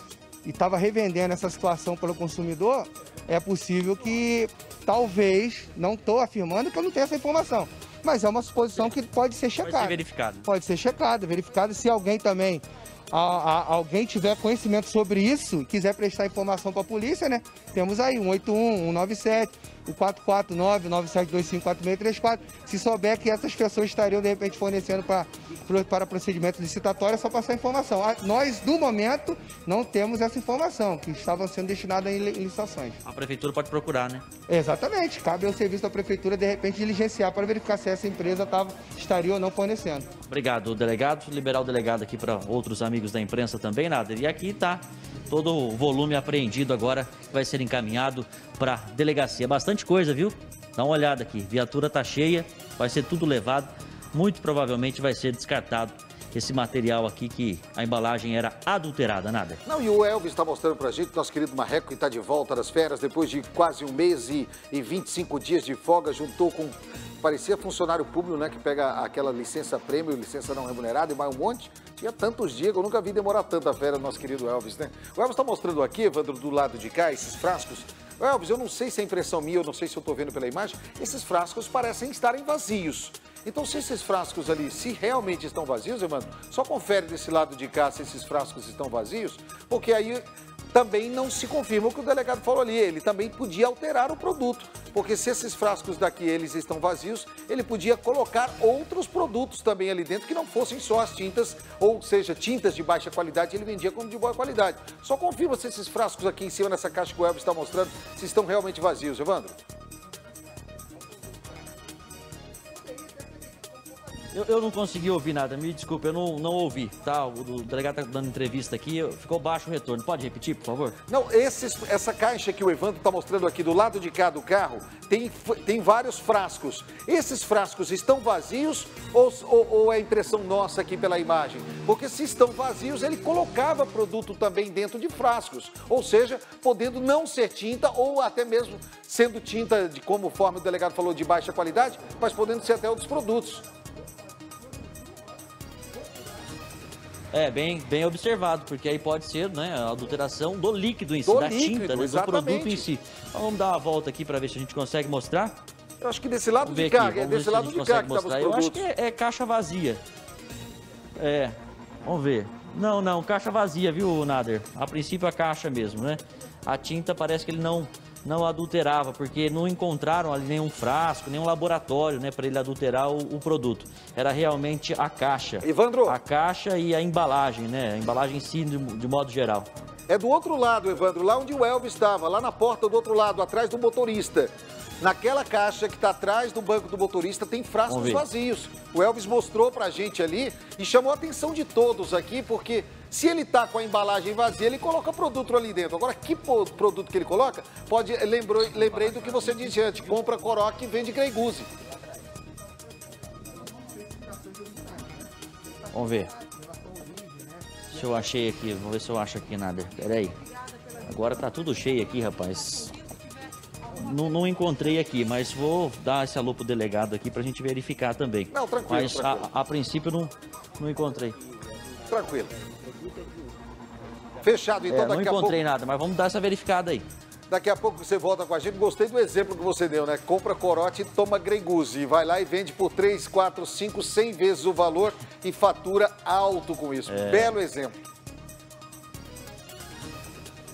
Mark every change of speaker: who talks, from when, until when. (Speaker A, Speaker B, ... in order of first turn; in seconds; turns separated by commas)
Speaker A: 0.4-33.0, Speaker B: 9.6-10.5, Speaker B: 33.0-34.2, Speaker A: 34.5-40.1, Speaker B: 40.3-59.6, Speaker C: 59.6-109.5, Speaker A: 112.8-113.7, Speaker B: 114.3-121.0, Speaker C: 121.1-143.6, Speaker B: 147.3-155.5, Speaker C: 151.2-152.9, Speaker C: 156.0-158.9, Speaker B: 156.6-160.0, Speaker B: 161.2-179.7, Speaker C: 175.6-176.2, Speaker C: 180.1-201.7, Speaker B: 187.9-188.2, Speaker B: 198.8-200.1, Speaker A: 203.7-208.0, Speaker B: 205.9-206.3, Speaker B: 207.9-210.4, Speaker B: 211.0-212.9, Speaker B: 213.9-221.3, Speaker C: 218.5-219.5, Speaker C: 222.1-222.5, Speaker C: 224.4-225.6, Speaker B: 224.9-227.0, Speaker C: 227.5-237.9, Speaker B: 237.1-237.5